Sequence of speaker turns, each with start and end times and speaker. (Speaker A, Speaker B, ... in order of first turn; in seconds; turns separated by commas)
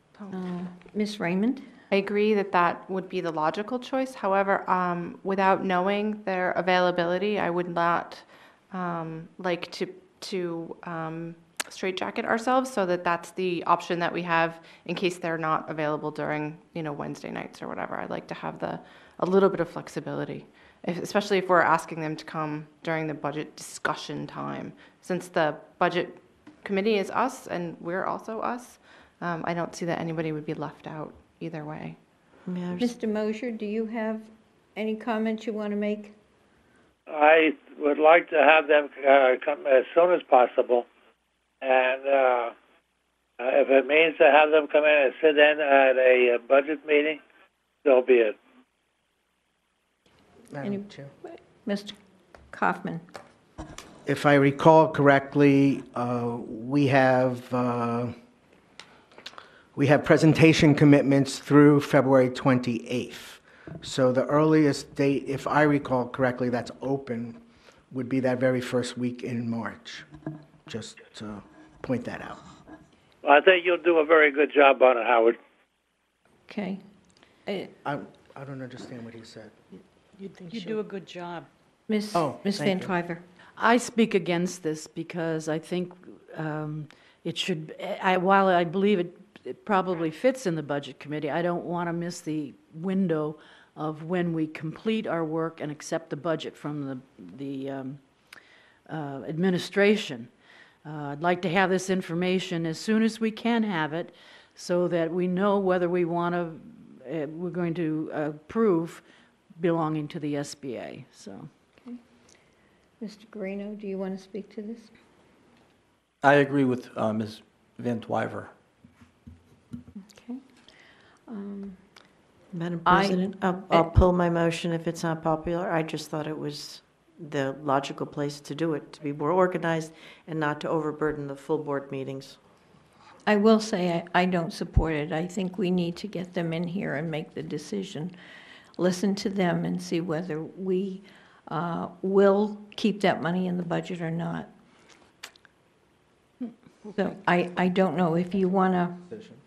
Speaker A: 0.3-1.7, Speaker B: 1.9-32.0, Speaker C: 32.5-33.0, Speaker A: 32.8-36.1, Speaker D: 37.1-40.8, Speaker D: 41.6-42.5, Speaker D: 43.4-47.2, Speaker D: 47.8-48.3, Speaker E: 50.5-51.1, Speaker A: 50.6-52.0, Speaker A: 52.5-53.0, Speaker E: 54.0-58.1, Speaker E: 59.7-67.4, Speaker E: 67.9-70.0, Speaker E: 70.7-72.4, Speaker D: 73.2-75.3, Speaker A: 76.5-76.8, Speaker A: 77.5-77.7, Speaker E: 77.8-79.5, Speaker F: 80.2-81.5, Speaker A: 81.9-83.2, Speaker E: 82.1-82.9, Speaker F: 83.6-98.1, Speaker F: 98.9-100.3, Speaker F: 100.8-109.0, Speaker F: 109.6-111.5, Speaker A: 113.0-114.9, Speaker G: 116.2-118.5, Speaker A: 120.1-120.4, Speaker A: 121.3-121.8, Speaker C: 122.5-132.4, Speaker A: 122.8-123.8, Speaker A: 133.2-138.1, Speaker A: 138.8-144.5, Speaker A: 146.8-149.1